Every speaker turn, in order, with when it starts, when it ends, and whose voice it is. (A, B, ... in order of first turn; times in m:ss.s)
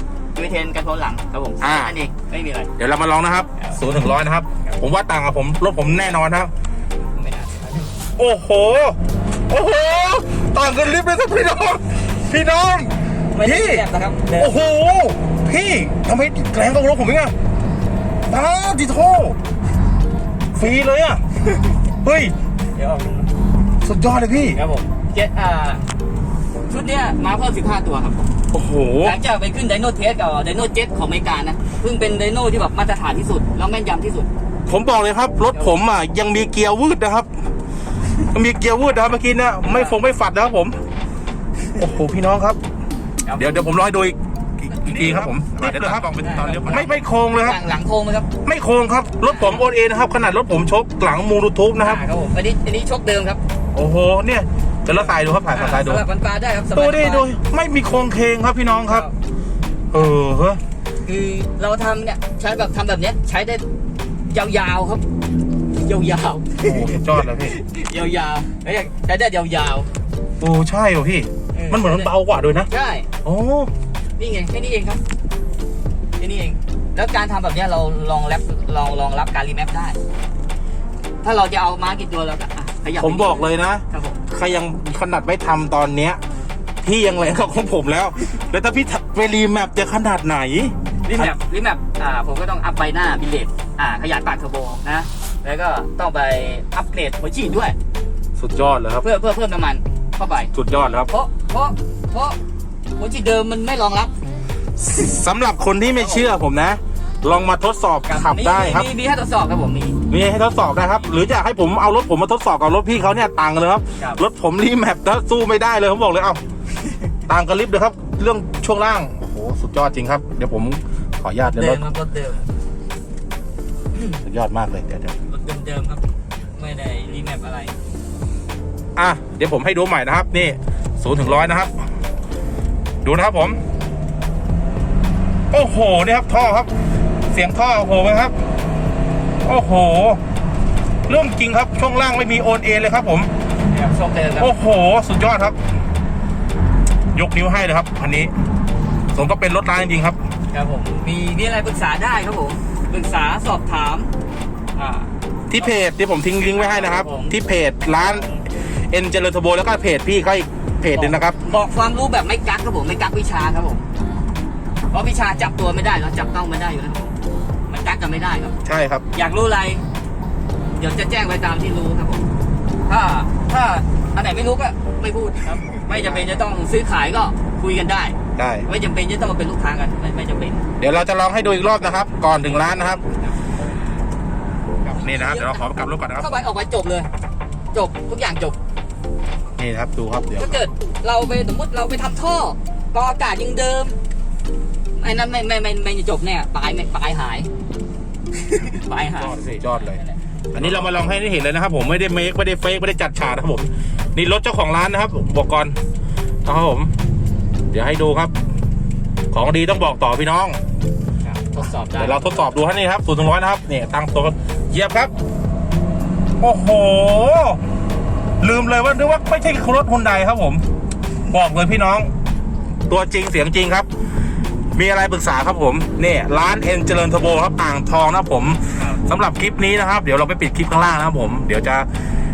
0:00.4-0:02.7 A
0:01.6-0:02.0 B
0:02.8-0:06.5 B
0:07.2-0:08.0 A
0:08.2-0:09.0 B
0:09.5-0:13.9 B
0:13.3-0:14.6 A
0:14.4-0:17.3 B
0:18.3-0:19.4 B
0:20.6-0:21.2 B
0:22.0-0:22.3 B
0:22.8-0:23.3 A
0:23.8-0:24.6 B
0:24.5-0:25.8 A
0:26.7-0:28.2 A
0:28.5-0:29.2 B
0:29.0-0:34.3 A
0:34.7-0:37.3 B
0:38.3-0:40.8 B
0:39.7-0:40.0 A
0:41.8-0:42.6 B
0:43.2-0:43.7 A
0:43.4-0:47.6 B
0:44.7-0:48.3 A
0:48.4-0:52.0 B
0:49.2-0:49.6 A
0:51.8-0:53.4 A
0:53.7-0:56.0 B
0:54.9-0:57.3 A
0:56.7-0:59.1 B
0:58.8-0:59.1 A
0:59.9-1:00.6 B
1:01.0-1:03.6 A
1:04.3-1:05.0 A
1:05.8-1:09.9 A
1:06.6-1:07.6 B
1:10.4-1:12.7 B
1:11.5-1:12.1 A
1:12.7-1:13.1 A
1:13.2-1:13.7 B
1:14.2-1:15.0 A
1:16.2-1:20.0 A
1:21.2-1:24.2 A
1:23.0-1:26.2 B
1:26.8-1:31.3 B
1:31.0-1:37.8 A
1:38.4-1:39.1 B
1:39.0-1:40.5 A
1:40.5-1:41.1 B
1:41.1-1:42.4 A
1:43.0-1:44.1 A
1:44.8-1:48.9 B
1:45.8-1:46.3 A
1:48.1-1:50.0 A
1:50.1-1:56.4 B
1:57.3-2:01.9 B
2:01.6-2:02.5 A
2:04.2-2:05.2 B
2:05.3-2:07.8 A
2:09.0-2:11.8 B
2:13.0-2:13.6 B
2:15.5-2:16.7 B
2:17.3-2:18.4 B
2:19.4-2:20.2 B
2:21.1-2:23.3 B
2:23.7-2:24.5 A
2:24.4-2:25.6 B
2:27.1-2:28.3 B
2:29.1-2:30.2 B
2:30.5-2:34.1 A
2:34.8-2:35.7 A
2:35.5-2:38.3 B
2:36.4-2:37.4 A
2:37.9-2:38.4 A
2:38.9-2:41.4 B
2:40.9-2:43.8 A
2:44.9-2:47.2 A
2:47.7-2:48.6 A
2:48.6-2:49.0 B
2:49.1-2:49.8 A
2:50.8-2:52.2 A
2:52.9-3:00.6 A
2:55.9-2:56.3 B
2:58.4-2:58.7 B
3:00.8-3:03.0 B
3:02.4-3:03.3 A
3:04.8-3:05.6 A
3:04.9-3:06.4 B
3:06.2-3:07.1 A
3:07.7-3:08.6 A
3:09.6-3:10.6 B
3:10.4-3:14.0 A
3:15.0-3:17.5 A
3:18.4-3:20.8 A
3:19.2-3:20.0 B
3:20.5-3:25.8 B
3:26.4-3:26.9 B
3:27.7-3:28.4 B
3:29.3-3:30.6 B
3:31.2-3:32.8 A
3:32.0-3:35.1 B
3:36.4-3:37.6 B
3:38.4-3:40.6 B
3:41.3-3:42.1 B
3:42.9-3:43.9 B
3:44.7-3:51.9 B